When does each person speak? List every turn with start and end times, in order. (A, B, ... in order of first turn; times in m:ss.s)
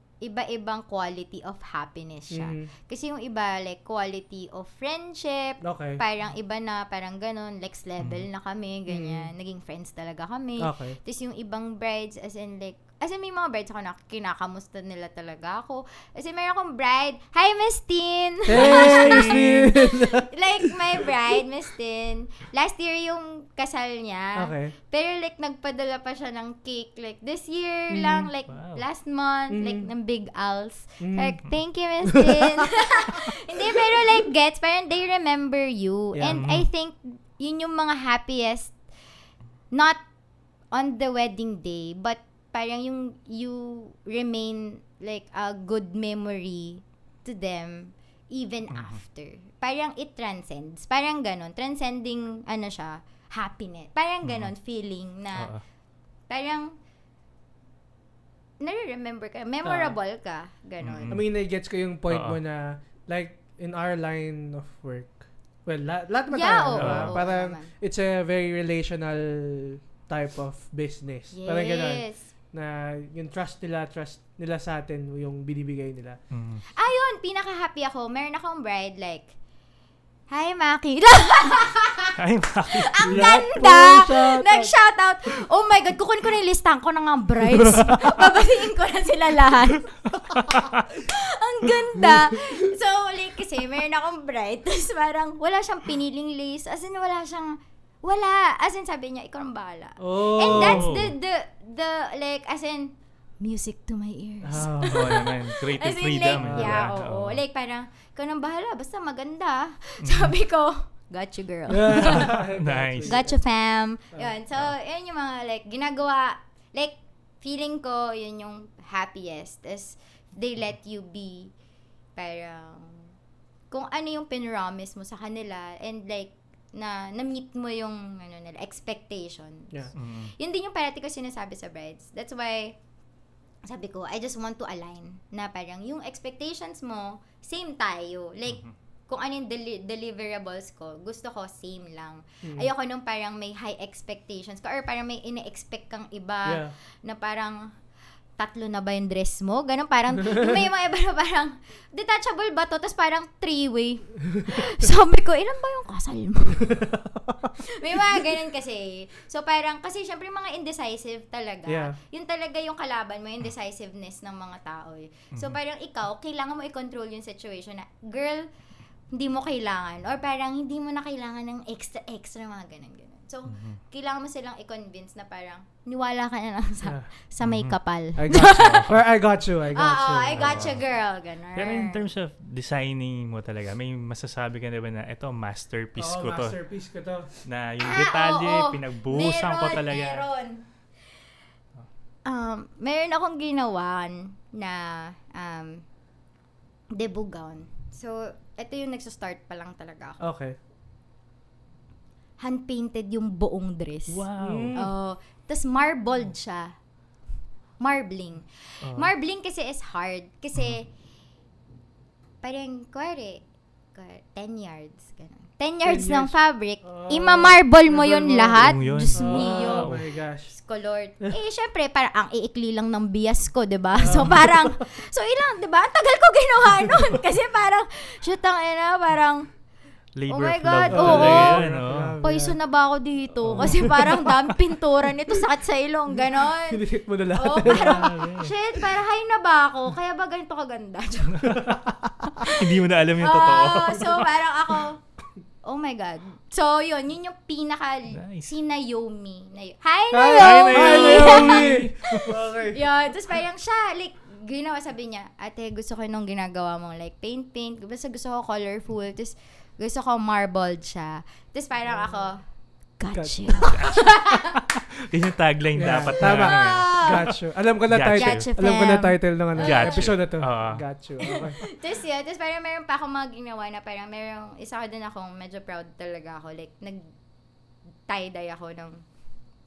0:00.2-0:38.8 A
0:02.3-0:02.7 B
0:05.6-0:06.0 B
0:08.0-0:08.2 C
0:08.9-0:09.3 B
0:10.6-0:11.0 B
0:18.5-0:20.3 B
0:18.5-0:19.7 C
0:24.4-0:24.8 B
0:27.9-0:28.3 B
0:28.5-0:28.8 C
0:29.5-0:29.9 B
0:31.0-0:31.4 B
0:32.1-0:32.5 B
0:36.1-0:36.5 B
0:36.3-0:36.6 C
0:39.7-0:40.0 A
0:40.7-0:55.5 A
0:48.7-0:49.0 C
0:54.2-0:54.5 C
0:55.4-0:55.6 C
0:56.3-0:56.8 A
0:58.6-1:01.2 A
0:59.6-1:00.0 B
1:00.8-1:01.3 C
1:01.1-1:16.2 B
1:02.1-1:02.4 C
1:06.3-1:07.7 A
1:06.8-1:07.2 C
1:11.3-1:12.3 A
1:16.3-1:16.6 C
1:16.8-1:19.3 A
1:20.3-1:52.4 A
1:22.2-1:23.3 C
1:23.0-1:24.7 B
1:27.5-1:28.2 B
1:40.0-1:40.9 B
1:40.5-1:41.1 C
1:44.4-1:45.2 B
1:44.9-1:47.4 C
1:46.4-1:46.8 B
1:50.0-1:50.3 C
1:51.7-1:53.4 B
1:52.0-1:53.2 C
1:53.0-2:01.5 A
2:02.2-2:03.1 A
2:03.7-2:12.8 A
2:10.0-2:10.3 C
2:13.7-2:27.7 A
2:22.4-2:22.7 B
2:26.5-2:26.7 B
2:28.4-2:36.7 A
2:30.2-2:30.5 B
2:36.6-2:37.6 B
2:37.6-2:48.5 A
2:41.7-2:42.0 B
2:49.1-2:58.9 A
2:53.5-2:53.8 C
2:56.8-2:57.1 B
2:57.4-2:57.8 C
2:58.2-3:00.8 B
2:58.3-2:58.9 C
2:59.7-3:02.0 A
3:00.3-3:00.8 C
3:01.6-3:06.6 C
3:06.0-3:07.3 B
3:07.4-3:10.3 C
3:07.8-3:10.7 A
3:12.3-3:15.8 A
3:16.9-3:20.2 A
3:20.2-3:20.6 B
3:22.4-3:26.8 A
3:24.1-3:24.8 C
3:24.4-3:24.9 B
3:27.8-3:30.9 A
3:32.4-3:33.4 A
3:33.9-3:39.9 A
3:35.9-3:40.5 B
3:38.6-3:40.1 C
3:40.5-3:49.5 A
3:44.0-3:44.8 B
3:50.2-3:52.2 C
3:50.3-3:51.6 A
3:50.9-3:52.6 B
3:52.2-4:01.6 A
3:53.5-3:53.8 C
3:53.5-3:54.3 B
3:56.1-3:58.2 B
3:57.6-3:58.5 C
4:01.4-4:01.7 C
4:01.5-4:02.4 B
4:02.4-4:02.6 A
4:02.4-4:04.3 C
4:03.2-4:05.0 A
4:05.6-4:22.4 A
4:08.1-4:08.5 C
4:10.1-4:12.9 B
4:10.4-4:12.4 C
4:21.9-4:22.2 B
4:23.0-4:24.6 A
4:23.1-4:23.8 B
4:23.6-4:27.3 C
4:25.8-4:31.6 B
4:26.2-4:27.3 A
4:27.9-4:28.5 C
4:28.1-4:30.1 A
4:29.6-4:30.8 C
4:31.2-4:37.0 A
4:38.1-4:39.0 A